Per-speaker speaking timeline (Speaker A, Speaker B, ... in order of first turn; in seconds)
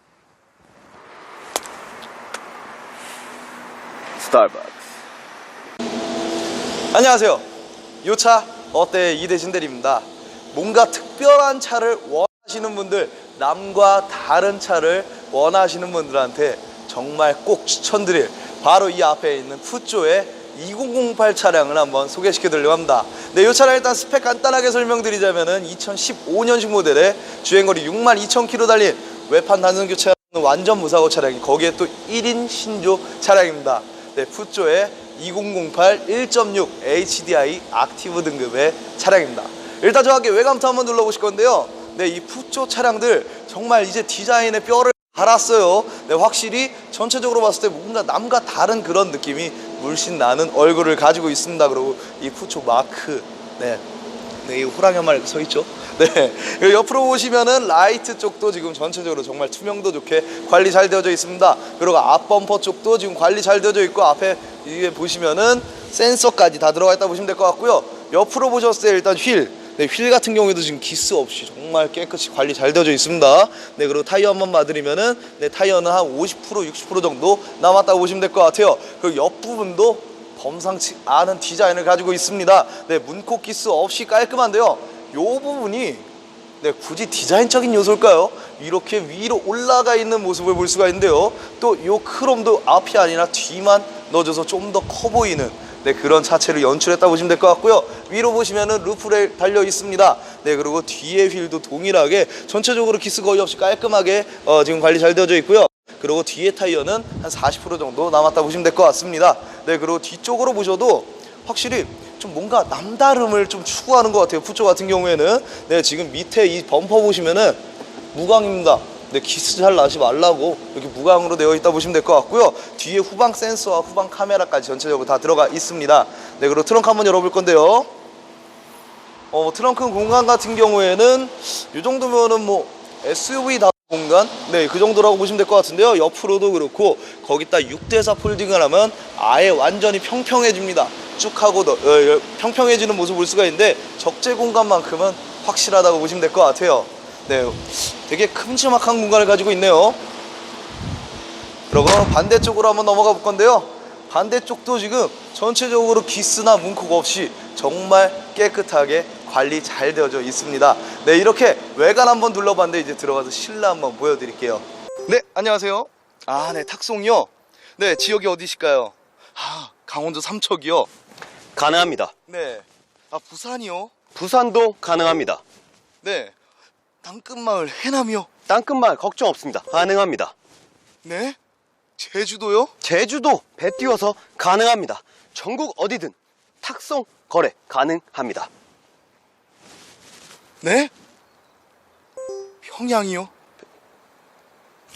Speaker A: 4.2-4.8, 171.5-172.1, 174.1-175.4, 178.5-180.3, 182.8-188.5
Speaker B: 6.9-7.4, 8.0-53.8, 54.4-86.1, 86.6-117.6, 118.1-127.9, 129.3-150.0, 151.7-170.9, 172.3-173.9, 176.0-176.3, 177.0-178.3, 181.0-181.4, 182.0-182.7, 190.6-190.9, 192.6-193.3